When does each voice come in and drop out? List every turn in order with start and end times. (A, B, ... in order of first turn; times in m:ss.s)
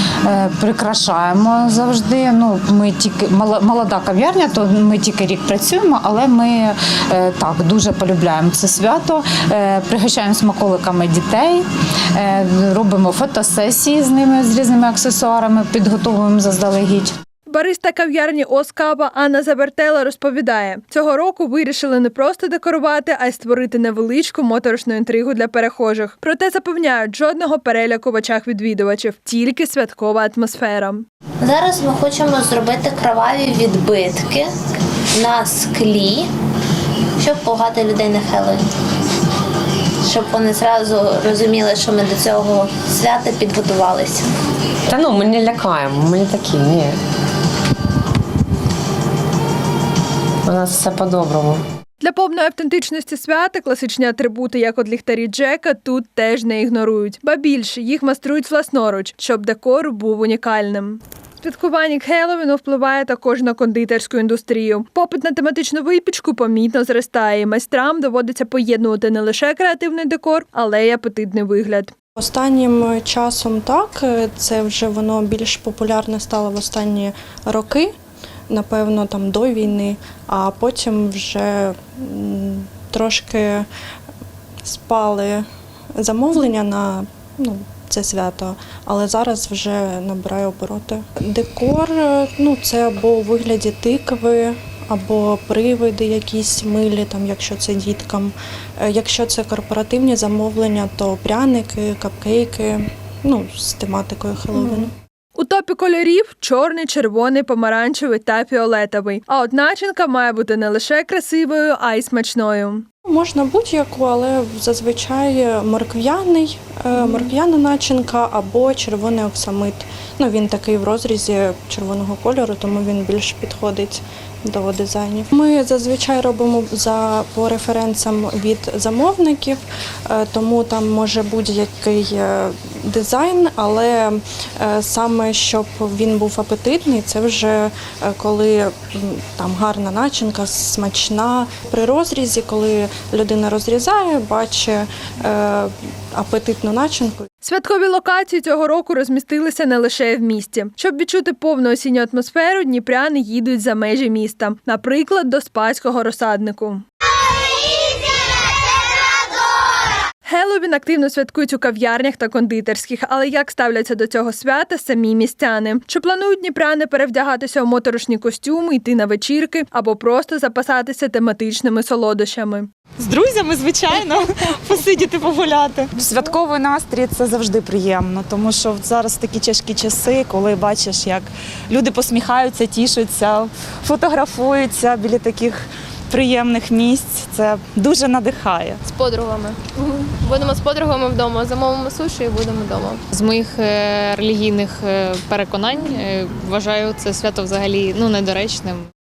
0:00.3-0:11.6 A
0:12.2-0:17.1 A
0:17.5-0:31.0 B
0:31.4-0:34.5 C
0:35.2-0:36.3 C
0:37.2-0:38.7 C
0:40.0-0:44.3 C
0:44.9-0:47.0 D
0:50.4-0:51.6 D
0:52.0-1:11.9 B
1:12.2-1:17.9 E
1:18.5-1:23.7 E
1:24.6-1:25.4 E
1:26.0-1:44.9 E
1:45.4-1:52.8 B
1:53.1-2:27.3 E
2:27.4-2:36.8 B
2:40.3-2:52.7 B
2:53.0-3:08.8 F
3:08.9-3:13.0 G
3:13.1-3:18.9 H